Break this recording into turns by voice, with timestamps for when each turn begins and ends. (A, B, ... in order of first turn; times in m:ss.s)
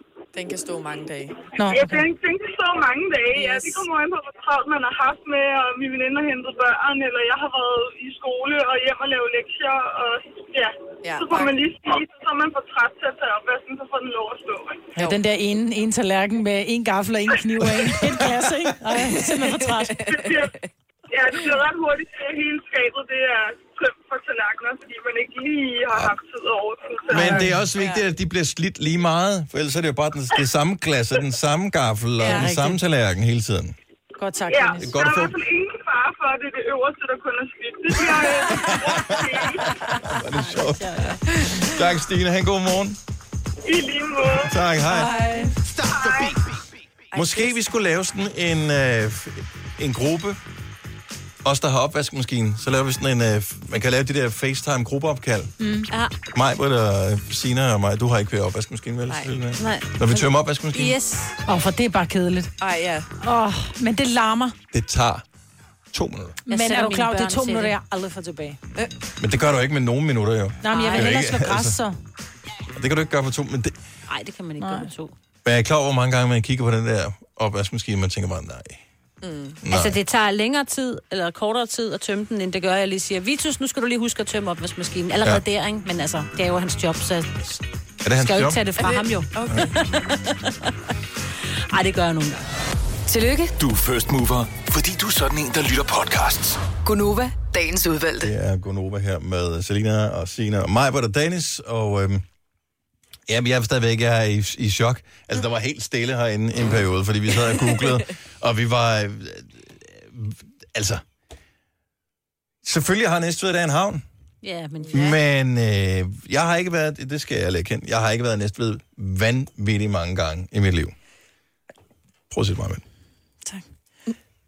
0:00.3-0:01.4 A
0:01.6-0:02.0 B
0:01.7-0:14.9 C
0:03.4-0:03.9 A
0:11.0-0:11.6 A
0:15.0-0:20.0 B
0:17.6-0:18.1 C
0:18.9-0:20.5 A
0:20.1-0:20.5 C
0:21.1-0:27.5 C
0:27.1-0:33.7 D
0:27.2-0:27.5 B
0:27.8-0:28.0 A
0:32.2-0:32.5 A
0:32.2-0:32.8 B
0:34.2-0:35.0 B
0:34.5-0:39.8 C
0:34.8-0:35.4 D
0:38.8-0:43.0 D
0:40.3-0:41.2 E
0:41.3-0:41.6 A
0:43.6-0:44.6 C
0:44.2-0:45.1 D
0:44.9-0:45.5 B
0:44.9-0:45.5 A
0:45.9-0:46.3 C
0:47.1-0:47.6 A
0:47.1-0:50.4 D
0:51.4-0:55.5 D
0:55.6-0:55.9 B
0:56.3-1:01.0 D
0:59.6-1:01.4 E
1:01.5-1:02.5 B
1:02.6-1:03.1 A
1:03.2-1:04.6 B
1:04.7-1:05.2 D
1:05.9-1:06.4 D
1:06.4-1:08.6 B
1:06.5-1:07.8 E
1:09.2-1:11.8 D
1:10.6-1:12.0 B
1:10.7-1:11.1 E
1:12.7-1:13.7 D
1:14.1-1:15.1 E
1:14.6-1:14.9 B
1:15.4-1:18.8 D
1:19.2-1:19.6 A
1:19.6-1:20.0 D
1:19.7-1:27.6 E
1:28.0-1:28.6 D
1:28.1-1:30.5 E
1:28.8-1:29.8 A
1:31.7-1:32.4 E
1:33.1-1:33.5 F
1:33.6-1:36.6 G
1:36.8-1:38.3 F
1:38.2-1:42.2 D
1:43.3-1:51.0 D
1:52.6-1:54.0 D
1:54.4-1:55.1 E
1:54.8-1:55.2 A
1:54.9-2:00.9 D
2:02.3-2:02.8 D